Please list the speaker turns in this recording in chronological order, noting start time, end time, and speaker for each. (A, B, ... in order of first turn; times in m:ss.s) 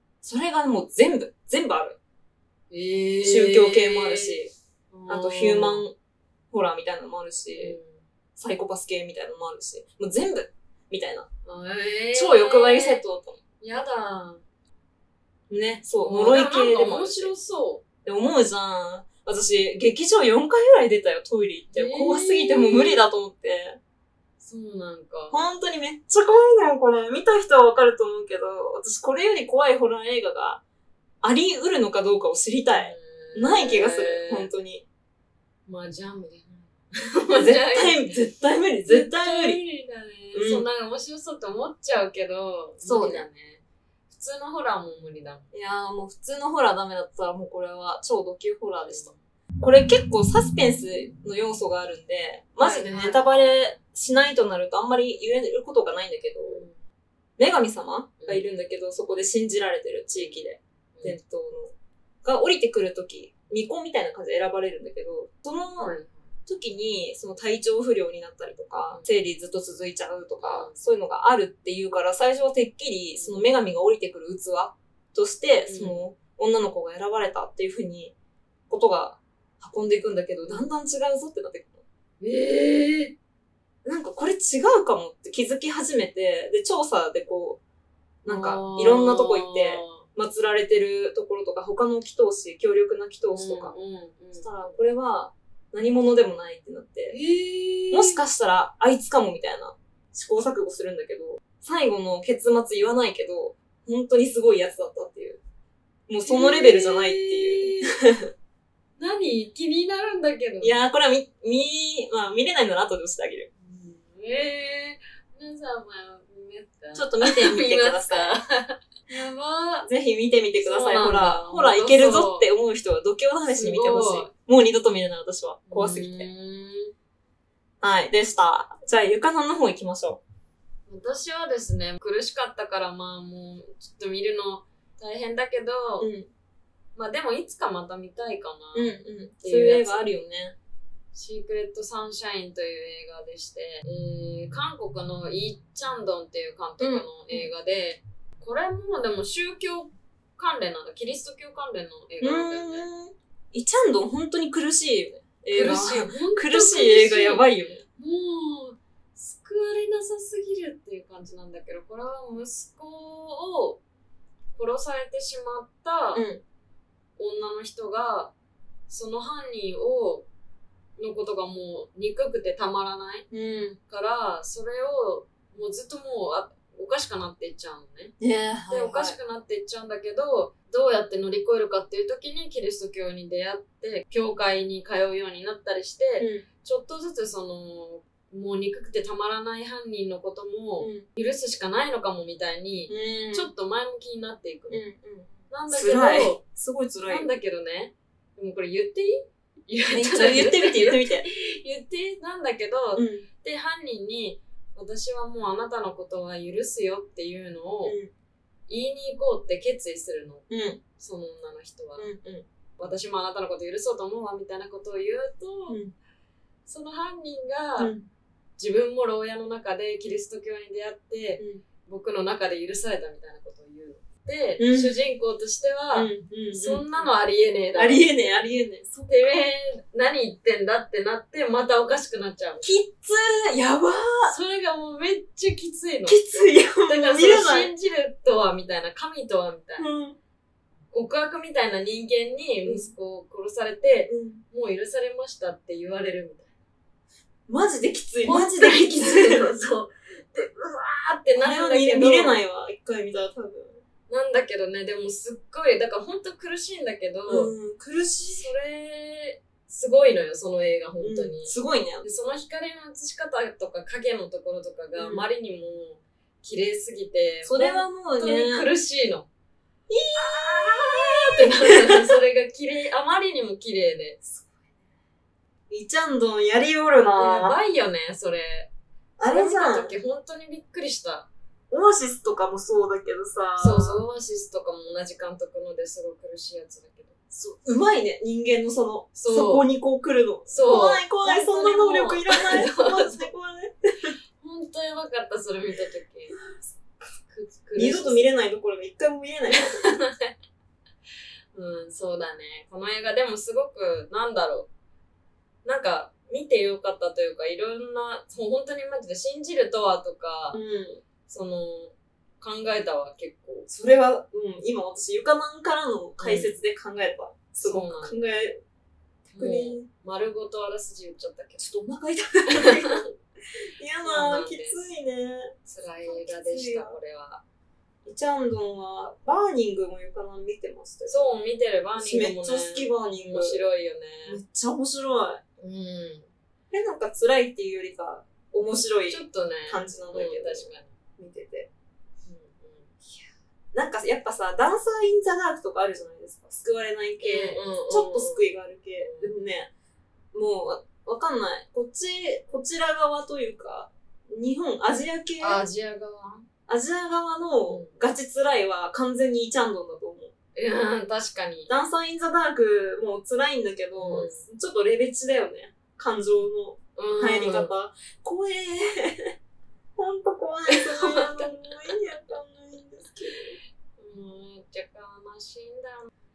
0:00.2-0:02.0 A
0:02.7-0:04.4 B
0:03.2-0:04.5 A
0:04.9-0:05.9 B
0:05.1-0:05.9 A
0:06.5-0:07.8 A
0:07.6-0:08.0 B
0:08.4-0:11.3 A
0:11.5-0:13.0 B
0:12.1-0:13.4 A
0:13.6-0:14.4 B
0:15.5-0:17.3 A
0:16.0-0:17.8 B
0:18.0-0:23.8 A
0:21.7-0:23.0 B
0:24.4-0:25.4 B
0:25.3-0:30.6 A
0:31.2-0:34.8 A
0:32.8-0:34.5 B
0:35.7-0:38.1 B
0:37.3-0:39.6 A
0:38.9-0:45.5 B
0:40.3-0:40.6 A
0:42.8-0:43.2 A
0:45.5-0:56.6 A
0:48.8-0:49.1 B
0:52.6-0:53.6 B
0:56.4-0:56.7 B
0:57.4-1:01.7 A
1:00.2-1:00.4 B
1:02.2-1:05.9 A
1:05.8-1:06.2 B
1:06.5-1:18.1 A
1:10.4-1:10.8 B
1:13.2-1:13.5 B
1:15.7-1:16.0 B
1:18.7-1:21.8 A
1:22.2-1:23.2 B
1:23.8-1:27.6 A
1:28.2-1:33.8 A
1:28.3-1:30.0 B
1:33.3-1:34.5 B
1:34.4-1:37.2 A
1:37.1-1:38.2 B
1:37.9-1:45.4 A
1:46.1-1:48.3 A
1:46.2-1:48.0 B
1:49.0-1:50.8 B
1:50.6-1:53.5 A
1:53.6-1:59.9 B
1:56.9-1:58.4 A
1:59.9-2:06.3 A
2:00.6-2:02.5 B
2:03.5-2:04.3 B
2:05.7-2:06.9 B
2:07.8-2:10.2 A
2:10.9-2:16.1 B
2:16.0-2:16.3 A
2:17.0-2:20.1 B
2:18.8-2:20.6 A
2:21.1-2:32.9 B
2:26.8-2:27.5 A
2:32.2-2:37.8 A
2:35.5-2:43.8 B
2:44.6-2:46.3 B
2:46.1-2:46.4 A
2:47.2-2:48.3 B
2:48.9-2:50.3 B
2:51.0-2:53.3 B
2:53.3-2:53.8 A
2:53.9-2:58.1 B
2:58.2-2:59.2 A
2:58.7-3:14.8 B
3:06.2-3:06.5 A
3:10.8-3:11.1 A
3:12.9-3:13.5 A
3:14.7-3:17.3 A
3:15.5-3:16.4 B
3:17.1-3:28.0 B
3:19.9-3:21.3 A
3:23.0-3:23.3 A
3:27.8-3:28.1 A
3:28.7-3:30.4 B
3:30.5-3:30.8 A
3:31.0-3:32.1 B
3:32.0-3:32.4 A
3:32.8-3:35.8 B
3:35.7-3:35.9 A
3:36.7-3:37.9 B
3:37.8-3:38.1 A
3:38.6-3:48.2 B
3:41.4-3:41.6 A
3:44.6-3:45.0 A
3:45.9-3:47.1 A
3:47.8-3:49.4 A
3:49.1-3:52.8 B
3:52.6-3:54.4 A
3:54.2-3:59.9 B
3:56.1-3:57.7 A
3:59.8-4:00.2 A
4:00.9-4:06.5 B
4:02.6-4:02.9 A
4:04.1-4:04.4 A
4:07.5-4:09.5 A
4:08.2-4:12.4 B
4:11.4-4:13.8 A
4:14.1-4:17.5 B
4:17.3-4:18.5 A
4:18.4-4:29.3 B
4:21.0-4:22.0 A
4:25.0-4:25.3 A
4:27.4-4:28.7 A
4:29.9-4:32.1 A
4:30.2-4:34.2 B
4:35.7-4:37.6 A
4:37.2-4:38.7 B
4:39.2-4:39.9 A
4:39.2-4:41.3 B
4:41.7-4:44.0 A
4:43.6-4:47.2 B
4:47.4-4:54.1 A
4:49.2-4:49.6 B
4:50.5-4:53.3 B
4:54.4-4:56.4 B
4:57.2-4:58.3 B
4:57.8-4:59.8 A
4:59.5-5:00.3 B
5:01.5-5:04.7 B
5:05.6-5:10.6 B
5:10.5-5:11.0 A
5:11.3-5:13.7 B
5:13.7-5:18.6 A
5:16.2-5:16.6 B
5:17.6-5:18.2 B
5:19.3-5:21.7 B
5:19.4-5:19.9 A
5:21.6-5:23.1 A
5:22.5-5:23.1 B
5:23.8-5:27.0 A
5:24.0-5:24.8 B
5:25.7-5:27.4 B
5:28.0-5:31.3 A
5:31.1-5:34.4 B
5:32.0-5:33.6 A
5:34.3-5:35.4 A
5:35.6-5:36.3 B
5:36.7-5:41.7 A
5:39.1-5:40.9 B
5:42.3-5:42.9 B
5:43.1-5:49.7 A
5:47.2-5:48.5 B
5:49.0-5:49.3 B
5:50.3-5:55.6 A
5:55.4-5:56.5 B
5:56.7-6:00.3 A
5:57.7-5:57.9 B
6:00.6-6:01.7 B
6:01.7-6:09.3 A
6:04.0-6:04.5 B
6:07.0-6:07.7 B
6:10.0-6:13.6 A
6:10.7-6:11.6 B
6:14.0-6:16.1 B